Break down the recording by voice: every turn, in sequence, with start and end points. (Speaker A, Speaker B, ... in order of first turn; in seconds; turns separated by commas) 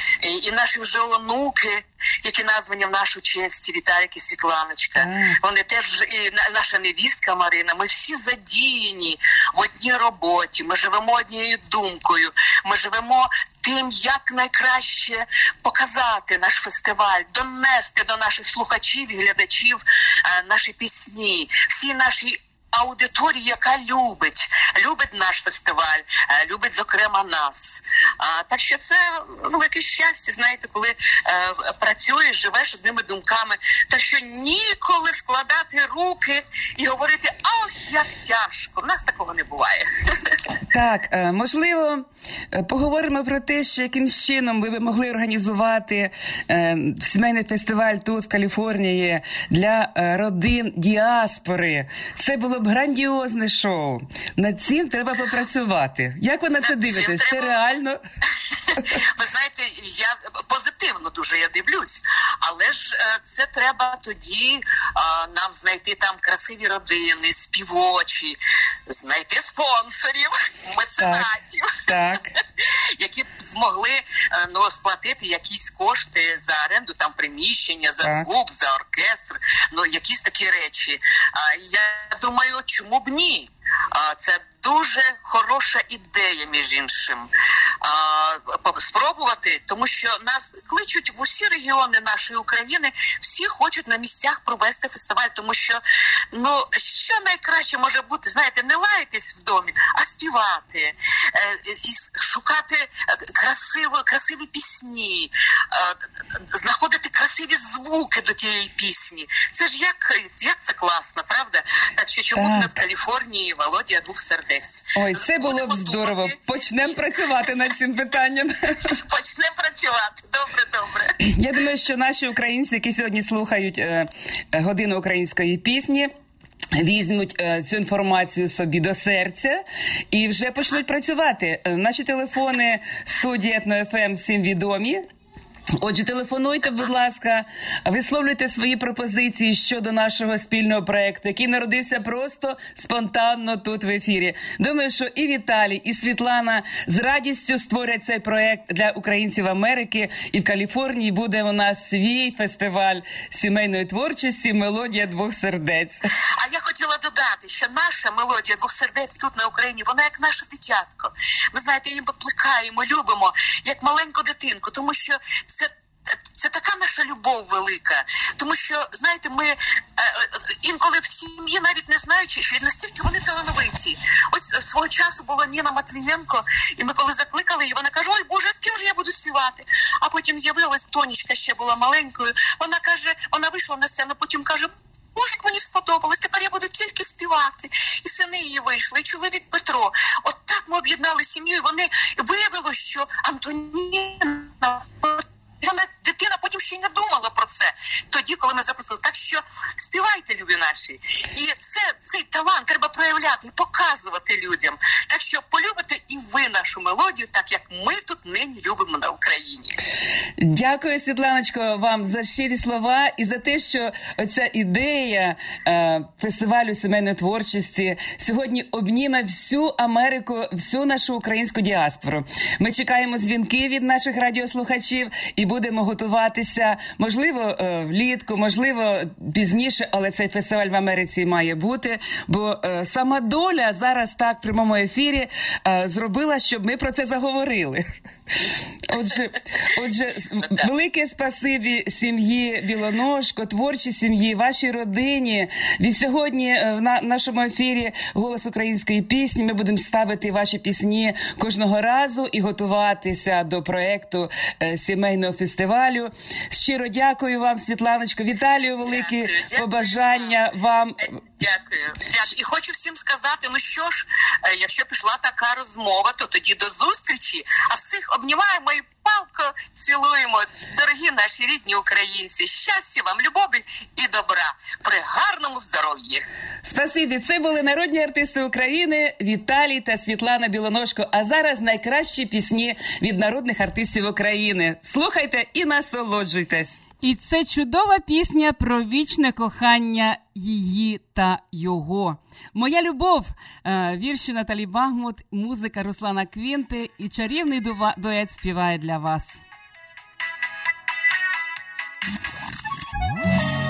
Speaker A: 0.2-40.4, Speaker B: 5.0-5.4, Speaker B: 40.7-58.0, Speaker A: 56.6-57.5, Speaker A: 58.6-71.8, Speaker B: 71.0-71.3, Speaker B: 71.9-72.3, Speaker A: 72.3-87.3, Speaker B: 78.0-78.3, Speaker A: 87.8-95.8, Speaker A: 96.3-117.0, Speaker B: 112.3-112.8, Speaker B: 115.0-119.0, Speaker A: 118.9-121.2, Speaker B: 121.2-126.1, Speaker B: 126.8-135.0, Speaker B: 135.8-156.1, Speaker A: 156.4-165.7, Speaker A: 166.3-209.8, Speaker B: 210.4-261.1, Speaker A: 258.8-260.1, Speaker A: 261.4-276.2, Speaker B: 276.6-286.8, Speaker C: 287.0-299.4